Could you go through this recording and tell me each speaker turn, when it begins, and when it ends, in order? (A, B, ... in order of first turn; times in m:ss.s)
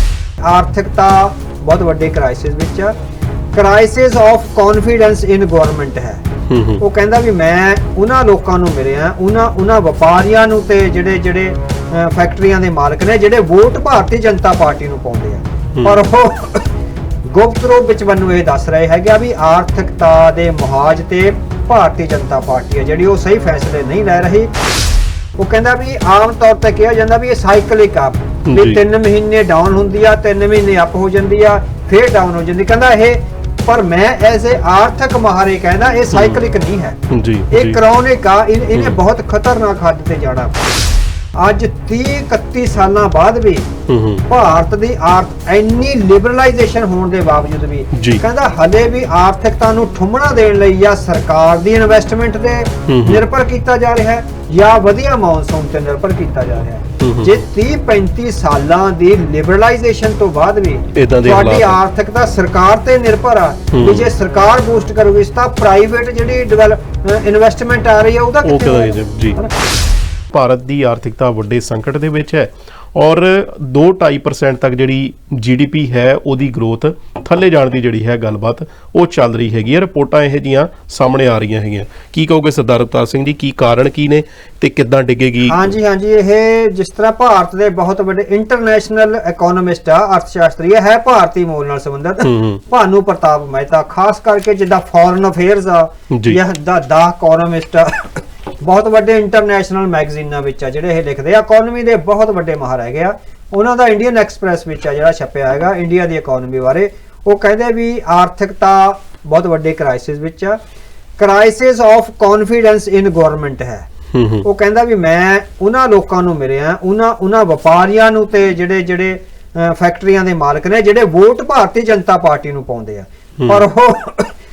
0:00.5-0:03.0 A
0:03.5-0:06.2 A
0:06.5-0:06.8 B
0:06.8-0:16.7 A
0:17.2-0:24.5 A
0:25.4-0:37.0 A
0:28.5-0:28.8 B
0:36.1-0:36.4 B
0:37.1-0:37.8 B
0:37.5-0:40.6 A
0:41.4-0:43.7 A
0:43.9-0:44.2 B
0:44.3-1:09.5 A
0:47.9-0:48.2 B
0:52.9-0:53.2 B
0:57.0-0:57.4 B
1:00.9-1:01.8 B
1:03.7-1:04.1 B
1:08.4-1:09.4 B
1:10.3-1:25.6 B
1:25.4-1:50.6 A
1:32.2-1:32.6 B
1:36.1-1:36.4 B
1:51.2-1:53.9 A
1:54.1-1:54.4 B
1:54.4-2:04.3 A